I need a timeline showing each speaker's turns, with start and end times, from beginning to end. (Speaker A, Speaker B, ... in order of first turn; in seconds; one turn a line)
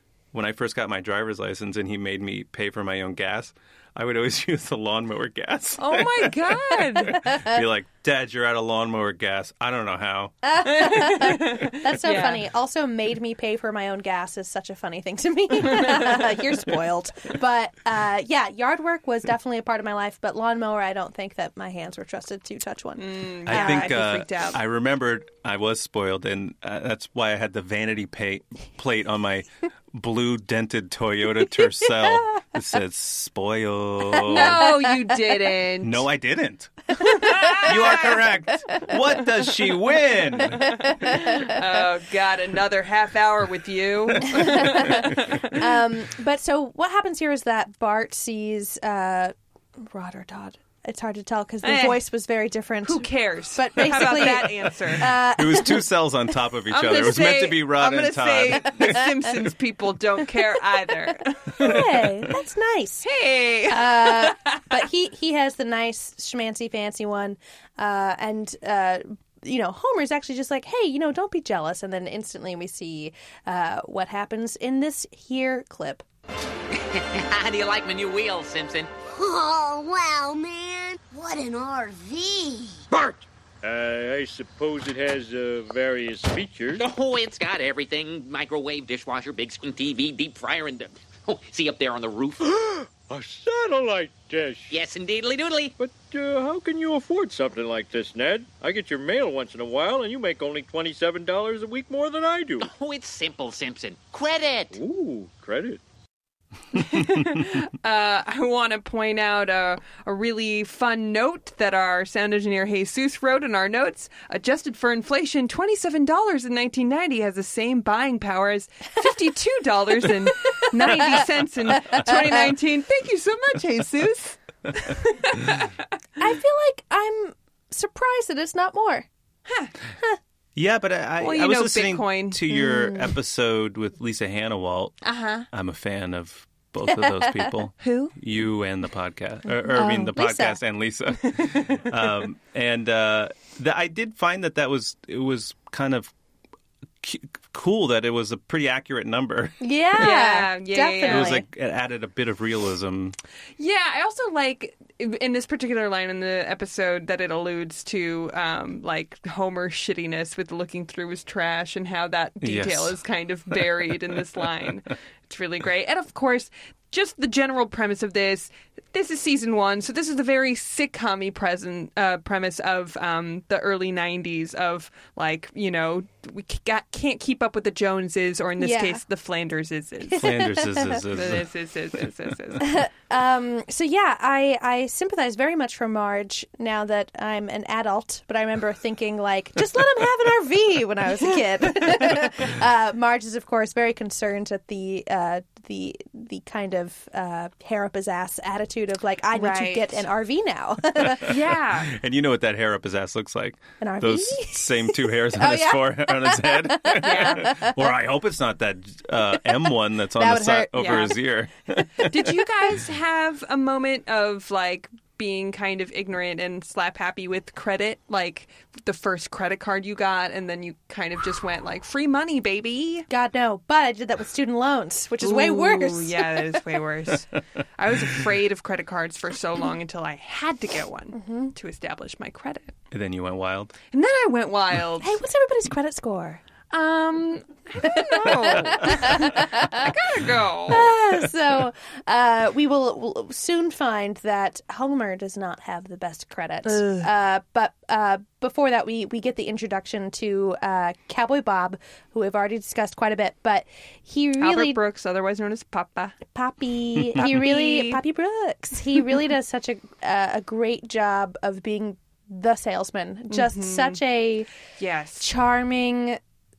Speaker A: 0.3-10.3
Speaker B: 5.8-7.2
Speaker C: 10.4-23.9
Speaker B: 10.6-12.4
Speaker B: 15.7-16.2
Speaker B: 23.0-24.6
Speaker A: 23.5-34.7
Speaker B: 34.2-36.0
Speaker A: 35.8-40.8
Speaker B: 37.2-37.9
Speaker B: 40.6-45.6
Speaker C: 44.5-45.0
Speaker C: 45.5-55.8
Speaker B: 51.6-52.0
Speaker B: 52.8-55.1
Speaker A: 55.3-59.1
Speaker B: 56.7-62.0
Speaker C: 61.6-63.1
Speaker B: 63.0-64.6
Speaker C: 63.7-76.0
Speaker D: 76.9-78.9
Speaker E: 79.1-82.8
Speaker F: 83.6-86.8
Speaker D: 86.8-92.6
Speaker F: 93.0-94.7
Speaker D: 94.7-95.7
Speaker F: 95.8-102.7
Speaker D: 102.6-104.8
Speaker F: 104.7-105.8
Speaker B: 106.7-125.7
Speaker C: 126.2-129.1
Speaker B: 129.5-129.7
Speaker A: 130.6-135.0
Speaker B: 131.2-132.4
Speaker C: 132.5-133.1
Speaker B: 135.0-135.4
Speaker A: 135.5-146.1
Speaker C: 137.0-137.4
Speaker B: 137.8-138.1
Speaker C: 139.7-140.6
Speaker A: 147.0-149.6
Speaker C: 149.6-151.4
Speaker B: 150.0-151.3
Speaker A: 151.0-153.2
Speaker B: 153.6-180.4
Speaker A: 162.4-163.0
Speaker C: 178.6-179.0
Speaker C: 180.1-180.9
Speaker A: 180.2-181.5
Speaker B: 181.1-182.7
Speaker C: 182.6-201.3
Speaker B: 199.3-200.0
Speaker B: 201.2-201.9
Speaker A: 201.8-212.1
Speaker C: 203.8-207.7
Speaker B: 207.0-207.5
Speaker C: 210.2-211.1
Speaker B: 210.8-211.1
Speaker B: 212.0-223.1
Speaker C: 223.1-226.2
Speaker B: 225.2-232.7
Speaker C: 231.1-231.5
Speaker A: 232.9-233.7
Speaker B: 233.9-235.2
Speaker C: 235.0-236.4
Speaker B: 236.7-240.9
Speaker C: 237.8-239.9
Speaker C: 240.7-254.8
Speaker B: 246.6-247.1
Speaker B: 254.4-256.2
Speaker C: 256.3-264.5
Speaker B: 257.2-258.0
Speaker B: 263.3-264.0
Speaker B: 264.8-265.2
Speaker C: 265.2-266.2